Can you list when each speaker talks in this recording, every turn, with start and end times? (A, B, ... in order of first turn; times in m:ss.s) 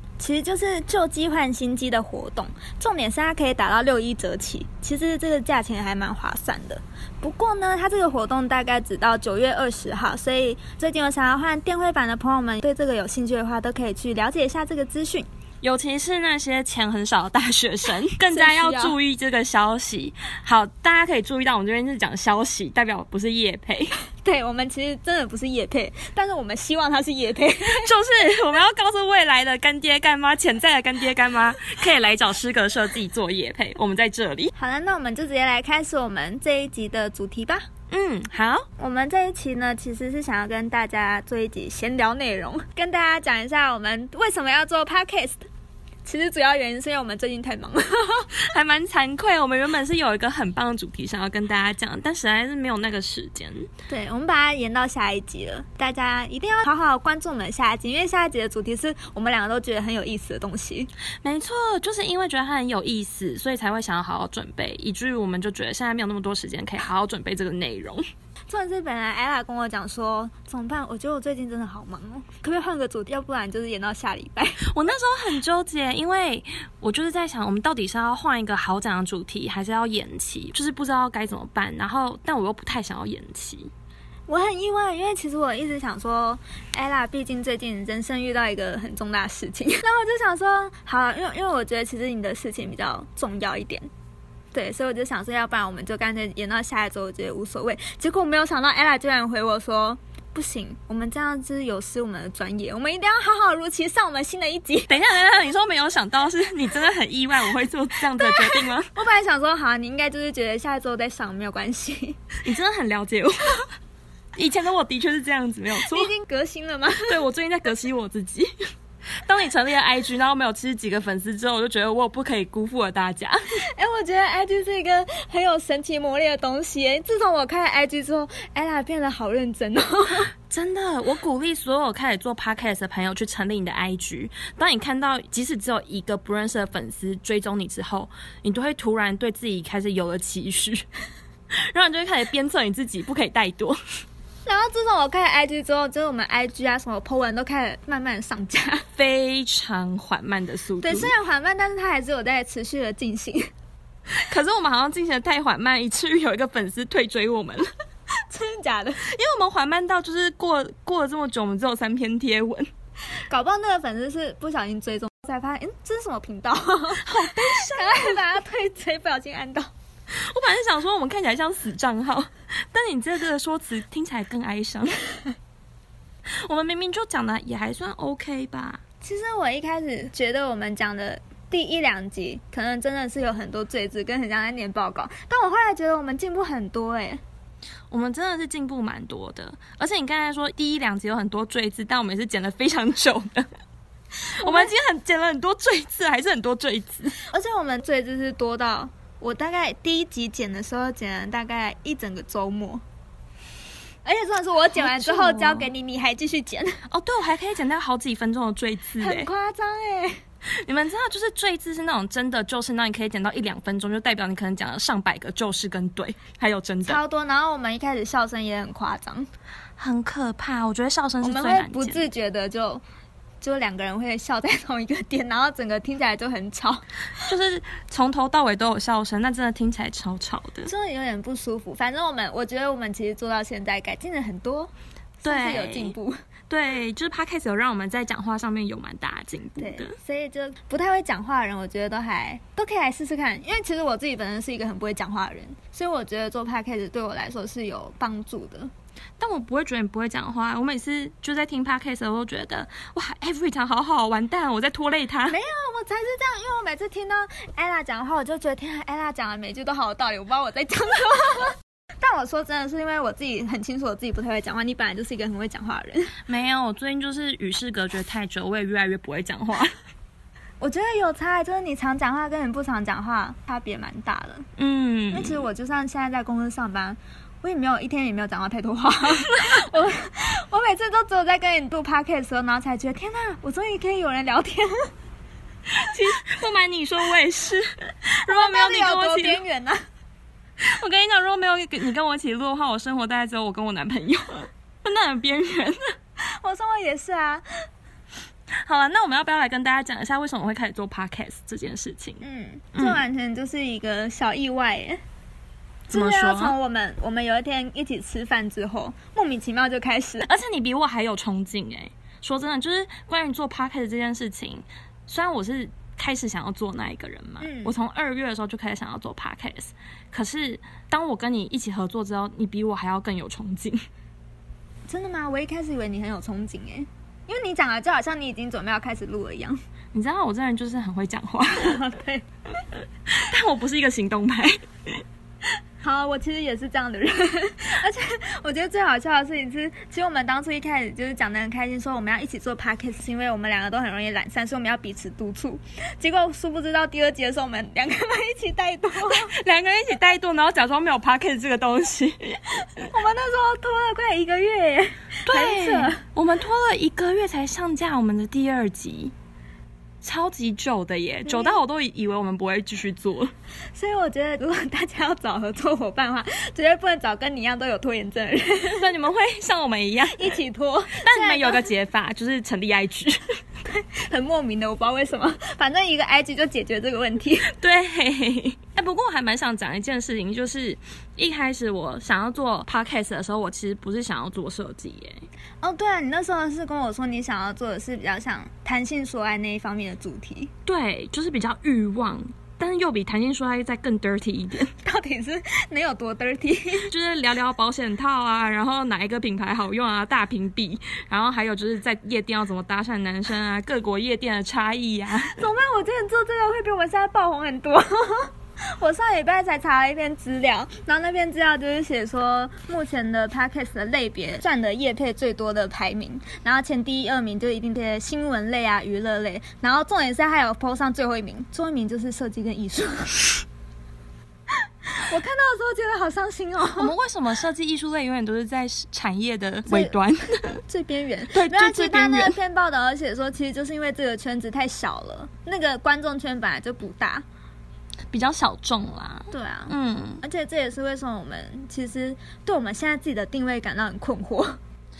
0:00.2-0:15.3 A
0:15.6-0:24.0 B
0:18.3-0:19.0 A
0:24.2-0:27.9 A
0:27.7-0:34.5 B
0:34.6-0:37.7 A
0:37.9-0:38.7 B
0:38.8-0:45.4 A
0:46.0-0:48.3 A
0:48.4-0:53.7 B
0:53.9-1:00.9 A
1:01.2-1:08.0 B
1:08.5-1:14.6 A
1:14.6-1:23.7 B
1:24.3-1:33.9 A
1:34.5-1:44.9 A
1:44.9-1:48.9 B
1:48.2-1:52.2 A
1:52.4-1:53.6 B
1:54.4-1:56.1 B
1:55.8-1:57.2 A
1:57.1-1:58.5 B
1:59.2-2:03.4 B
2:03.8-2:10.3 A
2:10.5-2:20.8 B
2:21.5-2:23.8 B
2:24.5-2:28.8 A
2:29.0-2:31.1 B
2:30.8-2:33.5 A
2:34.2-2:37.7 B
2:38.3-2:39.0 A
2:39.0-2:42.7 B
2:43.3-2:49.7 A
2:47.0-2:48.2 B
2:50.2-2:55.0 B
2:56.5-2:58.8 B
2:59.0-3:07.2 A
3:07.9-3:13.5 B
3:14.3-3:17.2 B
3:14.4-3:14.7 A
3:17.3-3:22.8 A
3:24.0-3:26.8 A
3:24.7-3:25.7 B
3:26.9-3:29.3 B
3:29.0-3:30.2 A
3:30.5-3:37.0 B
3:36.9-3:39.3 A
3:39.8-3:42.1 B
3:41.2-3:42.8 A
3:43.4-3:46.8 A
3:47.3-3:50.7 B
3:50.6-3:54.7 A
3:55.2-3:56.0 B
3:55.2-3:56.2 A
3:56.5-4:00.0 B
3:59.6-4:08.7 A
4:09.2-4:15.4 B
4:15.3-4:26.2 A
4:26.3-4:29.7 B
4:30.6-4:34.5 A
4:34.6-4:35.4 B
4:35.1-4:44.9 A
4:45.7-4:49.4 B
4:48.3-4:49.8 A
4:50.6-4:55.8 B
4:56.3-4:57.4 A
4:58.6-5:02.2 B
5:02.2-5:05.0 A
5:02.7-5:03.0 B
5:05.9-5:10.3 A
5:05.9-5:06.6 B
5:10.2-5:23.8 B
5:17.4-5:17.7 A
5:24.9-5:29.6 A
5:29.9-5:31.8 B
5:31.6-5:32.2 A
5:33.1-5:34.6 B
5:35.8-5:49.3 A
5:49.1-5:52.7 B
5:52.9-5:56.0 A
5:55.3-5:59.1 B
6:00.0-6:03.3 B
6:01.3-6:01.6 A
6:03.7-6:08.9 A
6:08.7-6:10.4 B
6:10.2-6:11.7 A
6:10.9-6:13.2 B
6:13.6-6:17.5 A
6:17.5-6:25.2 B
6:25.6-6:30.5 A
6:30.7-6:34.7 B
6:34.8-6:36.9 A
6:36.9-6:45.3 B
6:45.3-7:03.4 A
7:05.0-7:06.9 A
7:06.8-7:10.6 B
7:09.7-7:10.0 A
7:10.6-7:17.2 A
7:11.3-7:12.4 B
7:18.1-7:20.2 B
7:19.3-7:24.6 A